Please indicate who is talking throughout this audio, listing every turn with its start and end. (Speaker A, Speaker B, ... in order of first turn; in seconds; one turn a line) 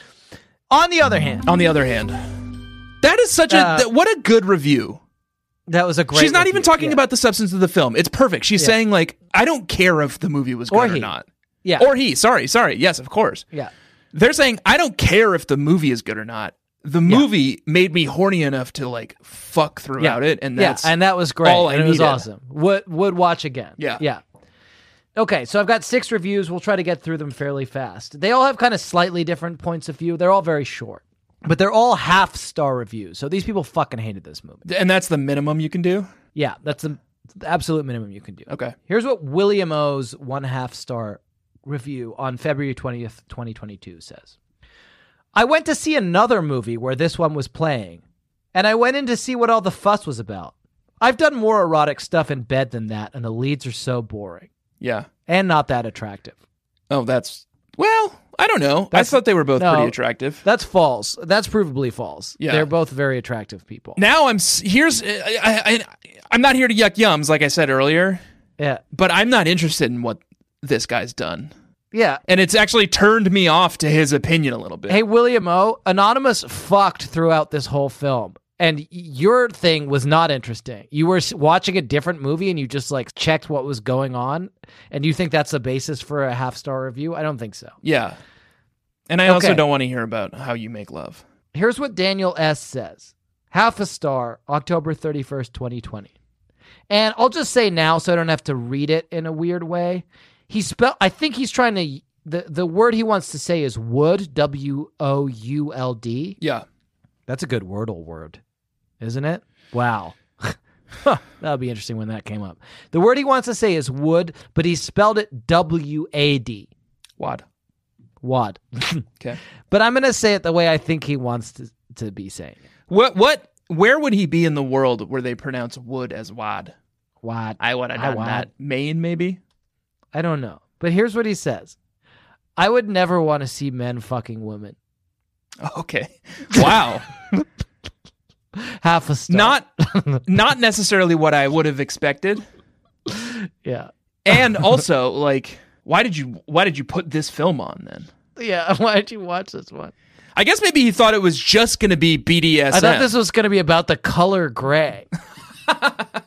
Speaker A: 0.7-1.4
Speaker B: 1.5-2.2
Speaker B: 3.0-5.0
Speaker A: 3.5-3.9
Speaker A: 5.7-7.0
Speaker B: 6.1-11.3
Speaker A: 10.7-11.1
Speaker B: 11.8-13.5
Speaker B: 14.1-22.2
Speaker A: 20.0-24.2
Speaker B: 23.8-24.0
Speaker A: 25.2-34.6
Speaker B: 34.6-36.1
Speaker A: 36.4-44.3
Speaker B: 38.5-38.8
Speaker A: 45.3-48.0
Speaker A: 48.5-54.5
Speaker B: 54.8-55.1
Speaker A: 55.3-56.4
Speaker B: 56.9-60.4
Speaker A: 58.9-64.0
Speaker B: 62.4-62.7
Speaker B: 64.0-68.2
Speaker B: 68.9-71.5
Speaker A: 71.9-72.2
Speaker B: 72.3-75.0
Speaker A: 74.9-87.7
Speaker B: 87.8-88.2
Speaker B: 89.1-91.2
Speaker A: 89.3-89.6
Speaker A: 91.5-96.1
Speaker A: 96.9-106.4
Speaker A: 107.3-108.4
Speaker A: 109.0-116.7
Speaker B: 117.2-117.5
Speaker A: 118.2-119.1
Speaker A: 119.7-122.6
Speaker B: 122.9-126.7
Speaker A: 127.2-128.5
Speaker B: 127.6-129.4
Speaker A: 130.1-131.8
Speaker A: 132.6-134.8
Speaker B: 135.6-137.1
Speaker A: 138.6-140.2
Speaker B: 139.3-139.7
Speaker B: 140.2-142.4
Speaker A: 143.1-143.9
Speaker B: 144.2-148.1
Speaker A: 148.4-149.9
Speaker B: 150.4-153.1
Speaker A: 152.7-155.1